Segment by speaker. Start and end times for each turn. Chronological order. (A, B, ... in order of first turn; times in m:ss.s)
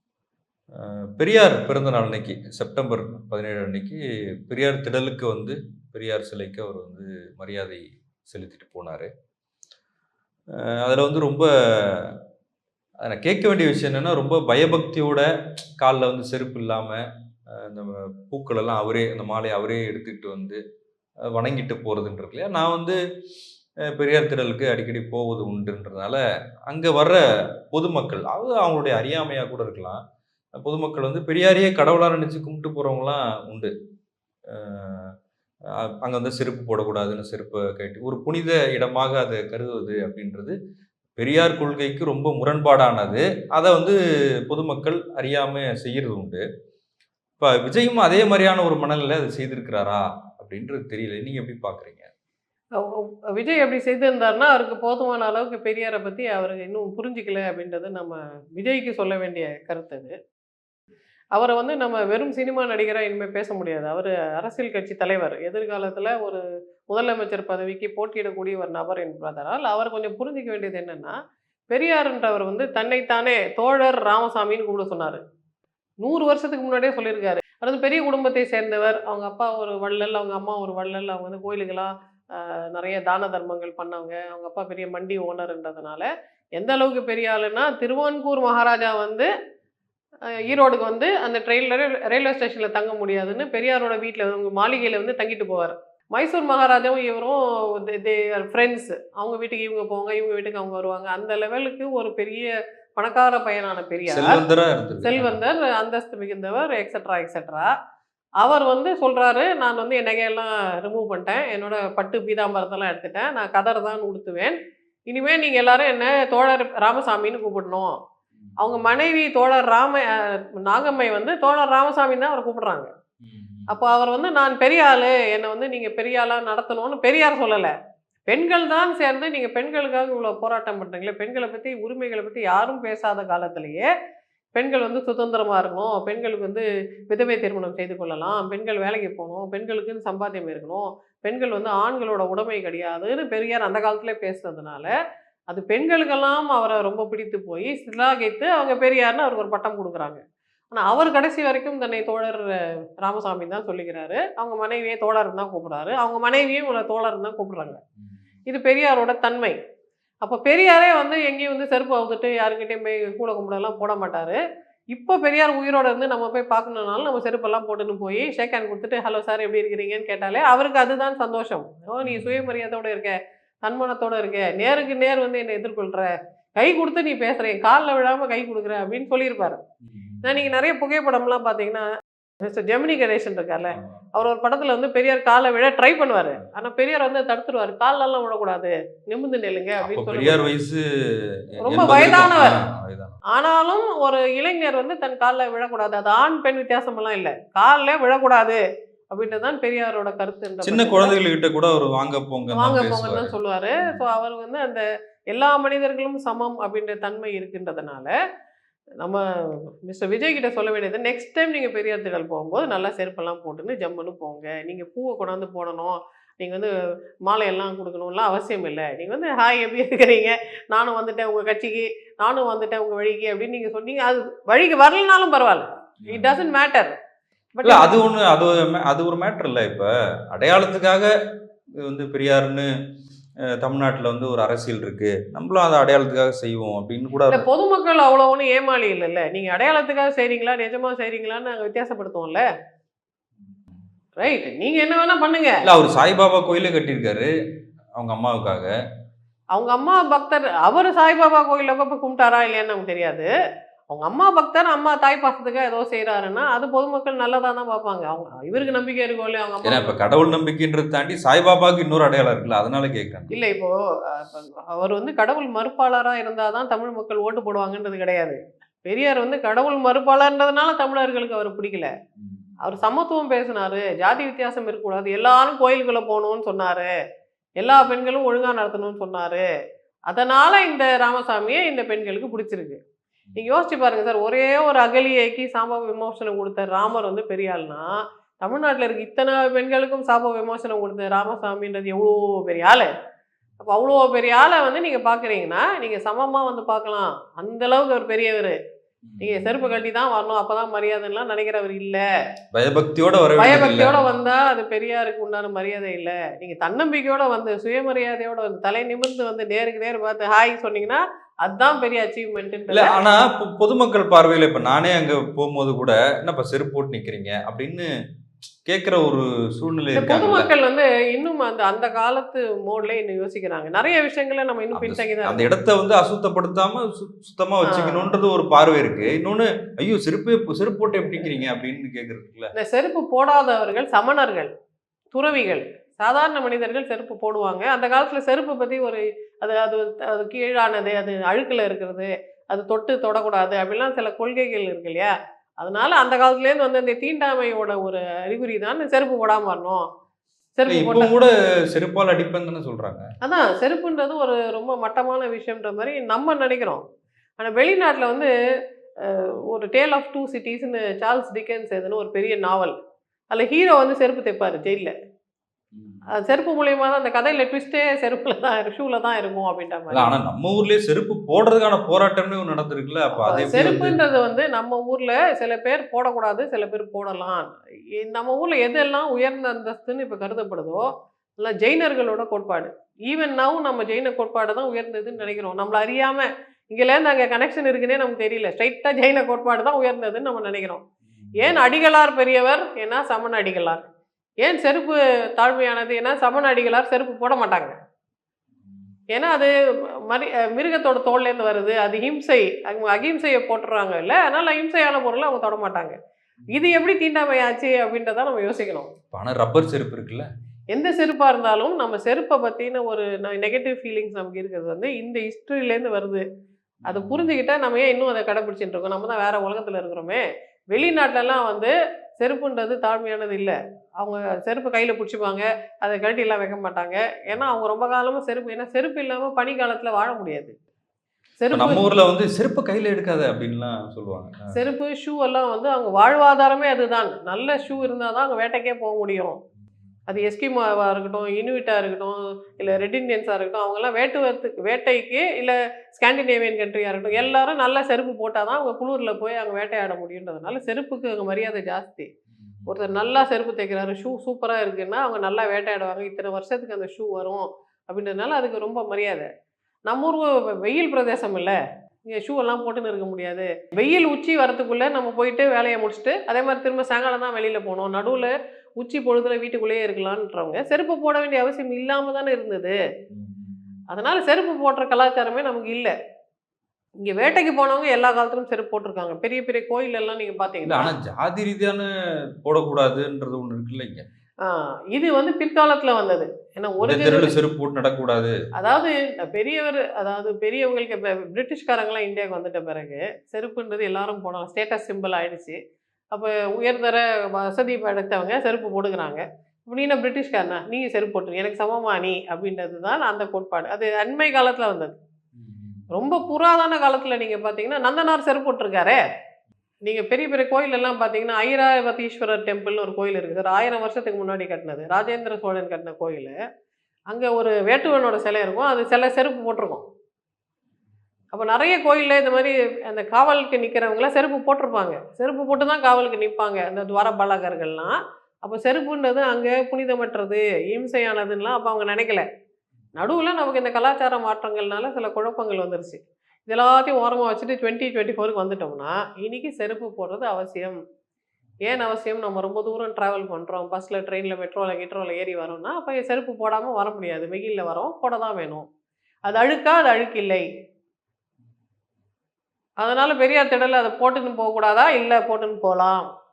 0:00.8-0:09.1 A
0:10.6-0:12.1 A
0:13.0-0:15.3 A
0:15.8-0:20.6 A
0:21.3-0:23.0 A
0:23.9-0:27.2 A
0:27.7-0:30.0 A
0:30.6-0:33.7 A
0:34.5-0:35.1 A
0:35.8-0:40.5 A
0:41.2-0:46.4 A
0:47.4-0:52.1 A
0:52.8-1:00.1 B
1:01.3-1:11.1 B
1:11.7-1:15.2 B
1:16.0-1:29.3 B
1:30.3-1:44.4 B
1:44.1-1:45.4 A
1:45.0-1:47.7 B
1:48.4-1:54.6 B
1:55.1-1:57.9 B
1:58.4-1:58.9 A
1:58.6-2:02.9 B
2:03.2-2:03.7 A
2:03.7-2:07.7 B
2:08.3-2:13.9 B
2:14.5-2:24.9 B
2:25.5-2:30.2 B
2:30.7-2:37.8 B
2:38.5-2:39.6 B
2:40.2-2:44.4 B
2:44.9-2:59.6 B
2:52.0-2:52.4 A
2:59.9-3:00.3 A
3:00.2-3:01.9 B
3:02.4-3:10.5 B
3:09.8-3:10.8 A
3:11.6-3:13.2 A
3:11.6-3:12.6 B
3:13.3-3:18.6 B
3:19.1-3:21.1 B
3:20.6-3:24.0 A
3:22.5-3:28.1 B
3:29.9-3:36.7 B
3:37.2-3:47.0 B
3:46.0-3:46.4 A
3:47.6-3:48.0 B
3:47.6-3:51.1 A
3:51.8-3:52.7 A
3:53.6-3:57.4 A
3:57.3-4:02.4 B
4:04.2-4:05.6 B
4:05.6-4:07.3 A
4:08.0-4:08.7 A
4:09.5-4:13.3 B
4:13.9-4:20.0 B
4:19.6-4:23.3 A
4:23.3-4:31.9 B
4:32.2-4:32.5 A
4:32.6-4:36.9 B
4:37.6-4:39.4 B
4:40.1-4:42.8 B
4:43.4-4:47.8 B
4:48.4-4:52.9 B
4:53.6-4:58.6 B
4:59.1-4:59.5 A
4:59.2-5:02.0 B
5:02.5-5:04.0 A
5:03.4-5:13.0 B
5:12.7-5:17.9 A
5:18.6-5:20.5 A
5:19.9-5:25.5 B
5:24.8-5:32.5 A
5:27.6-5:28.1 B
5:32.6-5:34.5 B
5:35.1-5:49.8 B
5:50.6-5:51.1 B
5:50.7-5:53.1 A
5:53.2-5:56.8 B
5:57.4-5:58.3 B
5:59.0-6:02.7 B
6:03.3-6:04.9 B
6:05.7-6:06.0 A
6:06.1-6:10.1 B
6:09.9-6:14.0 A
6:13.2-6:20.8 B
6:21.4-6:30.8 B
6:31.1-6:31.6 A
6:31.4-6:33.8 B
6:34.4-6:37.7 B
6:39.1-6:39.5 B
6:40.1-6:46.0 B
6:46.5-6:48.9 B
6:49.1-6:50.3 A
6:50.7-6:56.2 B
6:56.8-6:57.3 A
6:56.9-7:10.5 B
7:11.4-7:11.8 B
7:11.5-7:14.5 A
7:14.5-7:19.4 B
7:20.1-7:32.1 B
7:32.4-7:32.9 A
7:32.7-7:39.3 B
7:39.9-7:41.6 B
7:42.1-7:52.8 B
7:53.1-7:53.8 A
7:53.9-7:55.9 B
7:57.0-8:00.9 B
8:00.6-8:01.9 A
8:02.4-8:04.0 A
8:04.4-8:07.3 B
8:06.8-8:08.3 A
8:08.6-8:15.6 B
8:16.1-8:25.0 B
8:25.4-8:26.2 A
8:25.9-8:29.0 B
8:29.8-8:36.4 B
8:37.1-8:39.8 B
8:41.3-8:52.2 B
8:53.0-9:00.8 B
9:01.6-9:08.6 B
9:09.3-9:10.4 B
9:12.8-9:16.0 B